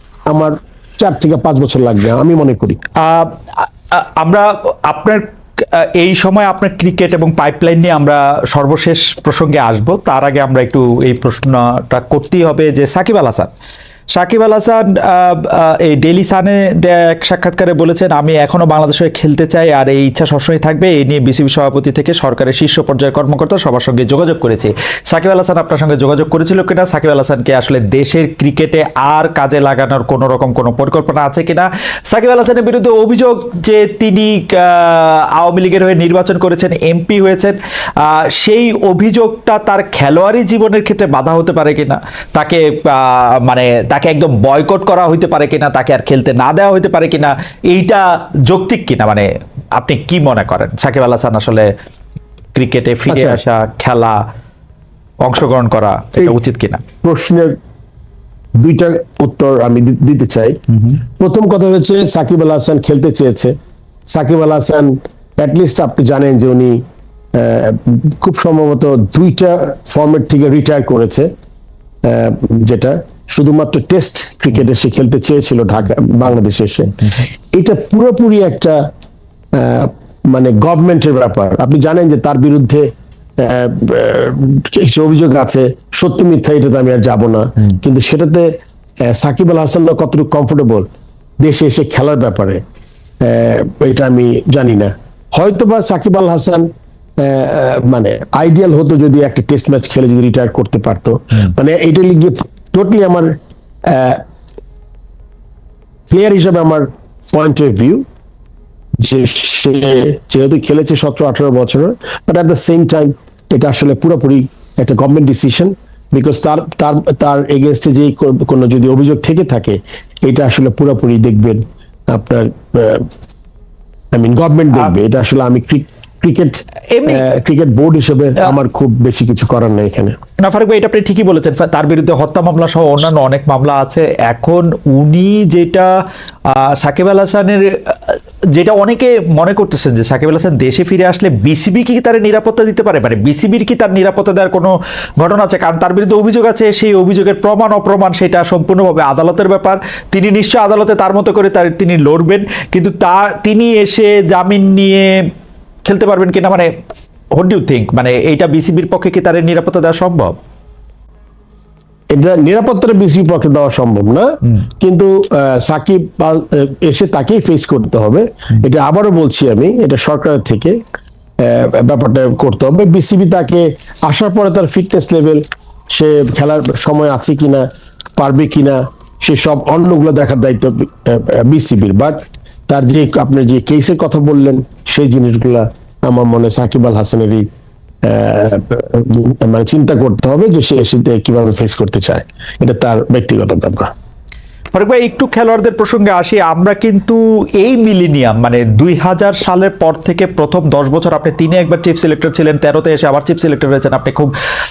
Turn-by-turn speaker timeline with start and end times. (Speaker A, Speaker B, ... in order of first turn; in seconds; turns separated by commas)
Speaker A: 0.3-2.8, Speaker B: 3.0-13.5, Speaker B: 14.2-49.3, Speaker B: 49.8-51.7, Speaker B: 52.5-54.2, Speaker A: 53.1-53.4, Speaker B: 55.2-56.8, Speaker A: 57.0-57.6, Speaker A: 58.6-60.6, Speaker A: 61.2-63.5, Speaker A: 64.1-66.8, Speaker A: 67.3-71.3, Speaker A: 72.0-77.0, Speaker A: 77.5-78.8, Speaker A: 79.5-90.9, Speaker A: 91.4-92.6, Speaker A: 93.2-96.7, Speaker A: 97.2-104.2, Speaker A: 106.1-108.0, Speaker A: 109.0-123.1, Speaker A: 124.1-130.2, Speaker B: 126.9-127.2, Speaker B: 130.4-135.9, Speaker B: 136.5-155.1, Speaker B: 155.8-156.7, Speaker B: 157.3-160.3, Speaker A: 162.1-170.8, Speaker A: 171.4-177.7, Speaker A: 178.2-187.5, Speaker A: 188.0-193.9, Speaker B: 194.7-204.3